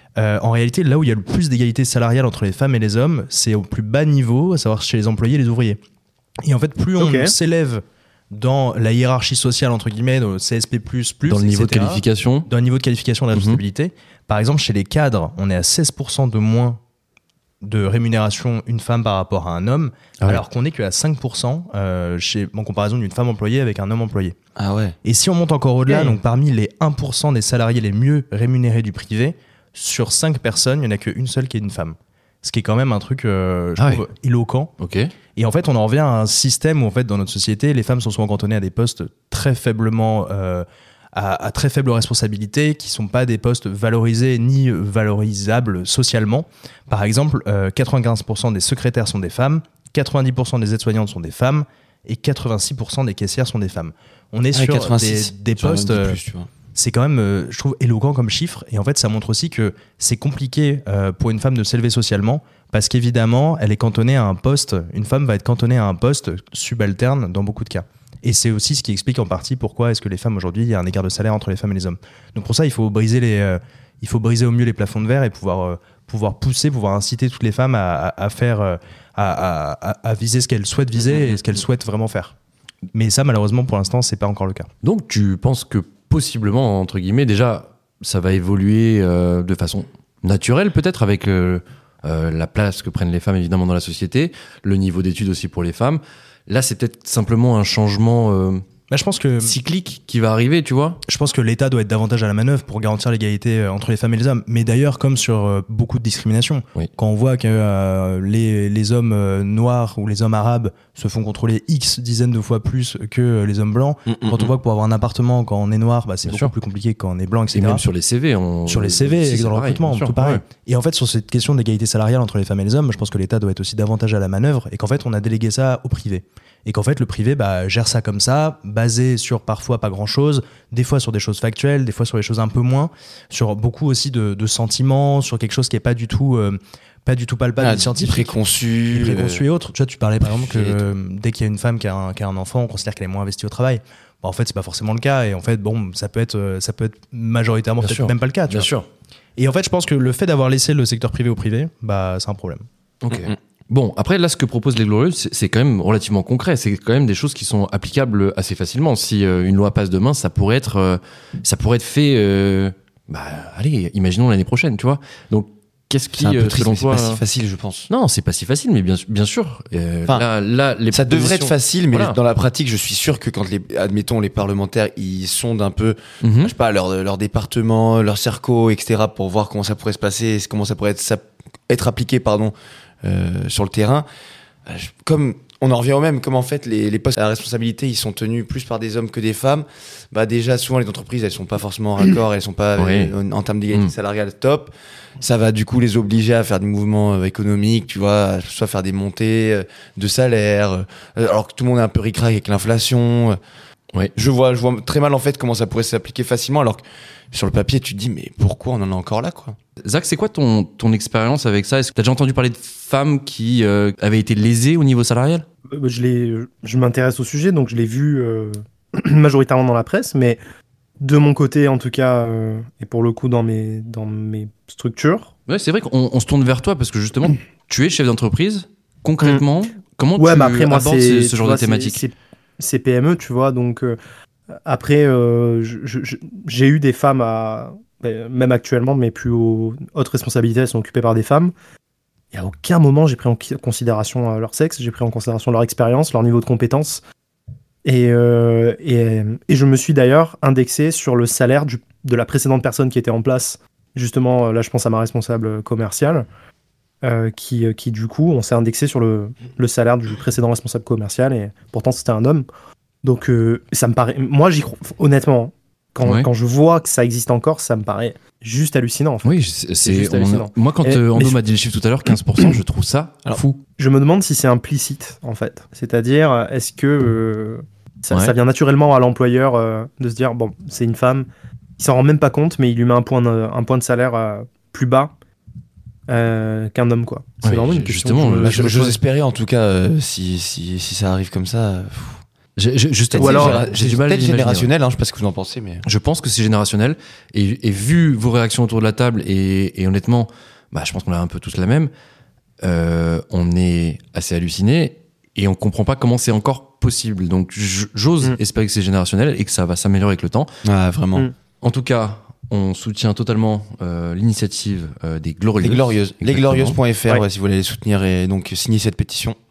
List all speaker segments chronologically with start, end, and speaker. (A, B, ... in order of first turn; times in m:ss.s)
0:00.2-0:05.8 A
0:06.4-0:16.8 A
0:07.0-0:07.3 B
0:11.3-0:12.5 C
0:13.3-0:13.6 C
0:17.6-0:24.4 A
0:24.6-0:25.0 D
0:25.0-0:34.7 A
0:34.8-0:35.1 C
0:35.4-0:56.2 A
0:54.5-0:56.5 D
0:56.7-1:22.3 A
1:22.9-1:24.7 A
1:24.8-1:38.6 C
1:38.9-1:39.5 A
1:39.4-1:41.0 C
1:41.1-1:57.8 A
1:54.0-1:54.5 D
1:56.2-1:56.5 C
1:57.5-2:00.4 C
1:58.7-2:18.4 A
2:17.6-2:19.4 D
2:18.9-2:28.7 A
2:20.2-2:20.8 D
2:27.8-2:28.8 C
2:29.4-2:32.6 A
2:33.0-2:47.2 C
2:46.1-2:47.9 D
2:47.9-2:52.2 C
2:50.9-3:04.0 D
2:56.2-2:56.5 C
3:04.6-3:23.4 D
3:12.8-3:13.1 C
3:24.1-3:29.6 D
3:29.8-3:35.4 C
3:35.7-3:40.4 B
3:41.0-3:45.3 B
3:45.5-3:52.0 C
3:50.2-3:54.0 B
3:54.6-4:01.5 B
4:02.3-4:07.0 B
4:07.8-4:16.2 B
4:17.0-4:22.5 B
4:23.0-4:31.4 B
4:26.0-4:26.3 C
4:29.2-4:33.6 C
4:33.8-4:41.3 B
4:41.8-4:45.1 B
4:46.1-4:49.0 B
4:47.4-4:48.9 C
4:48.4-4:52.2 D
4:52.6-4:54.7 C
4:53.1-4:55.8 D
4:53.1-4:53.6 B
4:55.8-5:01.9 C
5:02.6-5:10.5 C
5:10.6-5:11.3 D
5:11.6-5:16.8 C
5:15.6-5:19.4 D